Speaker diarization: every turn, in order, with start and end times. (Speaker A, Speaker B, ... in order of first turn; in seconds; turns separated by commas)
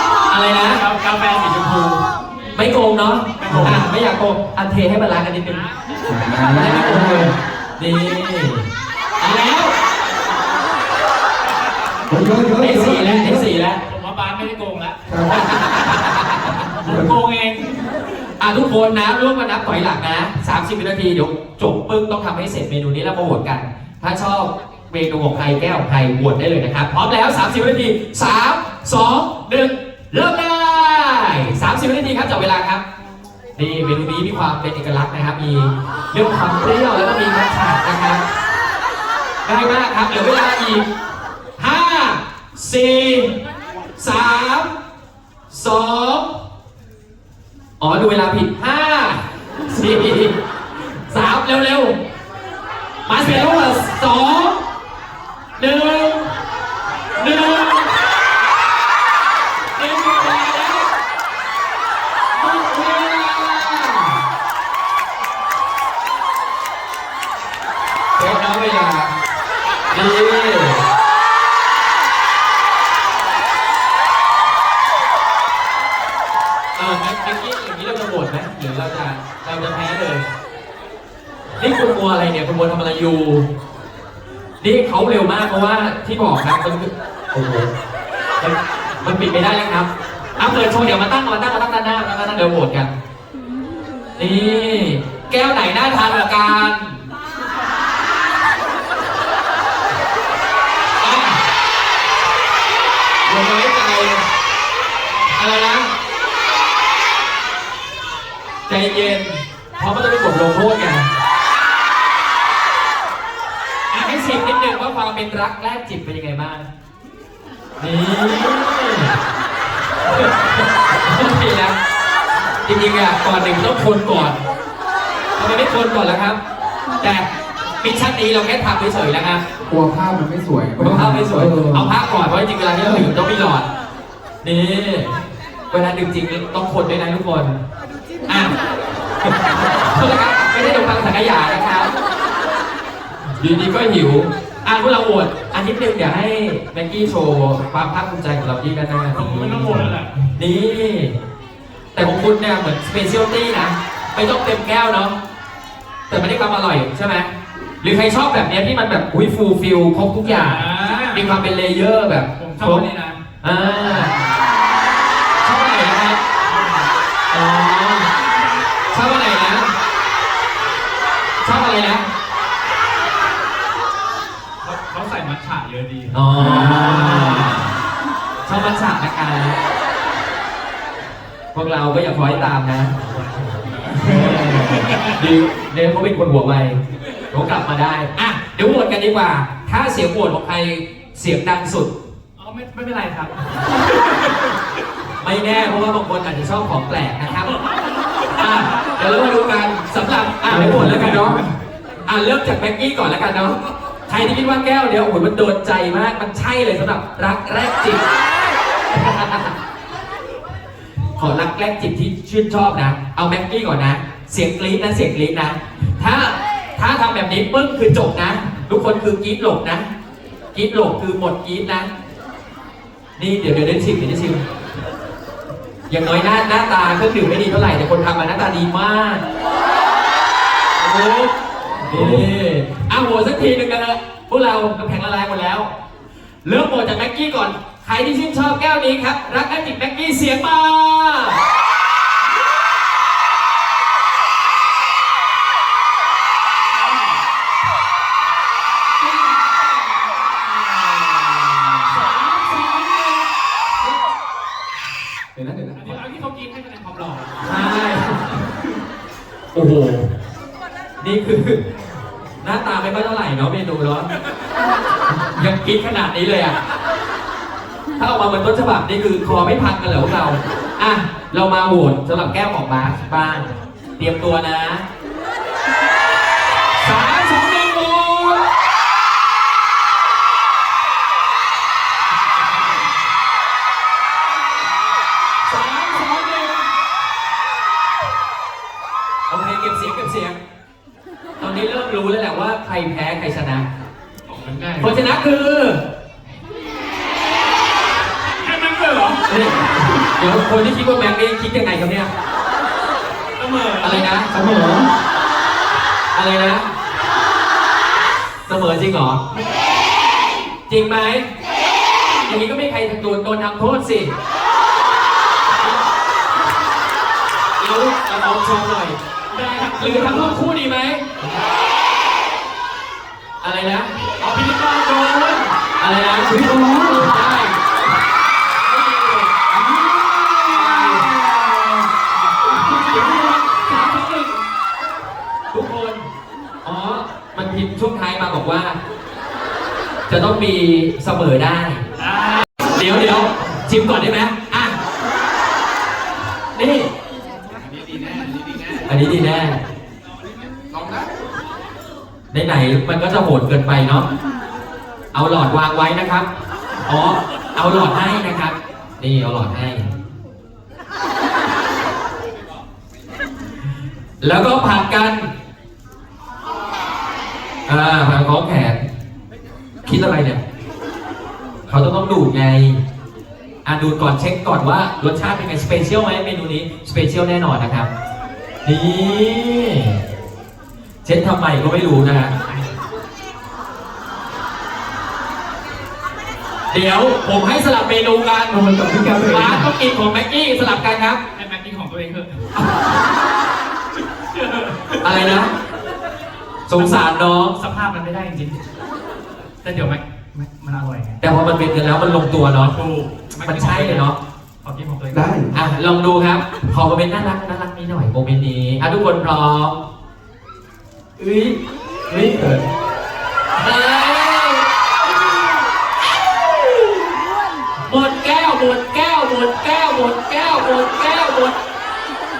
Speaker A: 0.3-0.8, Speaker B: 0.7-2.0, Speaker A: 2.5-5.6, Speaker B: 3.4-3.8, Speaker C: 3.5-3.8, Speaker C: 6.0-7.3, Speaker A: 6.5-8.6, Speaker A: 9.2-9.7, Speaker B: 11.8-12.2, Speaker C: 12.1-13.5, Speaker A: 12.6-13.8, Speaker B: 13.8-15.6, Speaker C: 15.1-15.4, Speaker A: 15.3-16.7, Speaker B: 16.7-17.8, Speaker C: 16.8-17.1, Speaker A: 18.4-32.8, Speaker A: 33.5-38.2, Speaker A: 39.4-40.9, Speaker A: 41.6-43.3, Speaker A: 44.0-44.7, Speaker A: 45.5-46.3, Speaker A: 47.8-50.4, Speaker A: 51.1-51.9, Speaker A: 53.0-54.6, Speaker A: 55.6-56.3, Speaker A: 57.1-57.9, Speaker A: 59.8-60.9, Speaker A: 62.3-64.2, Speaker A: 68.2-69.1, Speaker A: 69.9-70.8, Speaker A: 76.7-80.2, Speaker A: 81.6-83.5, Speaker A: 84.6-87.7, Speaker A: 88.4-92.9, Speaker A: 94.2-97.0, Speaker A: 101.0-101.4, Speaker A: 103.2-104.2, Speaker A: 105.3-105.9, Speaker A: 108.7-111.0, Speaker A: 113.9-116.7, Speaker A: 117.8-119.1, Speaker A: 120.0-121.8, Speaker A: 122.6-124.4, Speaker A: 125.3-126.4, Speaker A: 127.0-127.3, Speaker A: 127.8-129.4, Speaker C: 129.7-131.9, Speaker A: 130.8-133.7, Speaker C: 132.8-133.1, Speaker A: 134.4-135.2, Speaker A: 135.7-137.6, Speaker A: 138.3-138.6, Speaker A: 139.5-141.9, Speaker A: 143.4-151.1, Speaker B: 149.1-150.1, Speaker A: 151.9-155.1, Speaker A: 156.1-157.3, Speaker A: 157.8-162.8, Speaker B: 160.2-161.3, Speaker B: 162.4-163.2, Speaker A: 163.4-164.1, Speaker B: 163.9-164.3, Speaker A: 165.4-166.2, Speaker B: 166.4-166.9, Speaker A: 167.3-168.1, Speaker B: 168.2-168.6, Speaker A: 168.9-169.7, Speaker A: 171.4-172.1, Speaker B: 174.6-177.7, Speaker A: 176.1-177.7, Speaker A: 178.4-179.6, Speaker A: 181.5-182.9, Speaker B: 182.0-185.2, Speaker A: 183.9-186.8, Speaker A: 187.3-191.9, Speaker B: 192.4-194.3, Speaker A: 195.2-197.5, Speaker B: 197.3-198.9, Speaker A: 198.3-201.4, Speaker C: 200.5-201.4, Speaker B: 200.8-201.4, Speaker A: 202.1-208.0, Speaker A: 208.9-209.5, Speaker A: 211.1-219.9, Speaker A: 220.5-221.9, Speaker A: 223.2-224.4, Speaker A: 225.9-229.2, Speaker A: 230.8-235.7, Speaker C: 231.9-232.3, Speaker A: 236.4-241.4, Speaker B: 246.9-247.2, Speaker A: 251.1-251.6, Speaker B: 251.8-253.3, Speaker C: 255.3-256.0, Speaker B: 255.7-257.5, Speaker A: 257.4-258.4, Speaker A: 259.5-260.1, Speaker A: 261.0-261.6, Speaker A: 262.4-264.1, Speaker A: 265.3-266.6, Speaker A: 268.0-274.8, Speaker B: 276.8-278.5, Speaker B: 285.4-286.7, Speaker A: 289.3-290.4, Speaker A: 291.4-293.6, Speaker B: 294.3-295.0, Speaker A: 294.8-295.8, Speaker B: 298.3-299.2, Speaker A: 299.3-302.1, Speaker B: 303.4-304.1, Speaker A: 303.8-304.3, Speaker C: 304.3-304.9, Speaker A: 306.1-306.6, Speaker A: 308.4-309.2, Speaker B: 309.3-309.6, Speaker A: 310.7-311.3, Speaker A: 312.2-314.1, Speaker A: 317.6-319.0, Speaker B: 319.3-320.4, Speaker A: 319.8-321.0, Speaker A: 323.4-323.9, Speaker B: 324.2-325.5, Speaker A: 325.8-327.6, Speaker B: 326.5-327.1, Speaker A: 328.6-331.1, Speaker B: 330.4-331.8, Speaker B: 332.4-334.4, Speaker A: 332.6-333.8, Speaker A: 335.5-336.0, Speaker A: 336.6-338.8, Speaker A: 340.1-341.8, Speaker B: 342.0-342.5, Speaker A: 342.6-344.8, Speaker A: 346.5-346.9, Speaker A: 348.9-349.6, Speaker A: 352.3-354.1, Speaker A: 355.1-356.3, Speaker A: 356.9-359.9, Speaker A: 364.2-365.3, Speaker A: 367.7-368.8, Speaker A: 369.8-370.4, Speaker A: 371.7-372.8, Speaker A: 373.6-377.9, Speaker A: 378.6-380.0, Speaker A: 381.0-382.3, Speaker B: 382.3-382.7, Speaker A: 386.7-388.6, Speaker C: 388.5-389.6, Speaker A: 389.2-391.2, Speaker B: 391.3-392.5, Speaker B: 394.3-395.0, Speaker A: 395.0-395.5, Speaker A: 396.7-397.6, Speaker B: 396.7-397.0, Speaker B: 397.5-398.6, Speaker B: 399.6-401.2, Speaker A: 401.2-402.8, Speaker B: 402.7-404.1, Speaker A: 403.4-404.2, Speaker B: 404.6-405.4, Speaker C: 405.1-405.5, Speaker A: 405.5-409.8, Speaker A: 411.2-412.6, Speaker A: 413.6-414.6, Speaker A: 417.9-421.6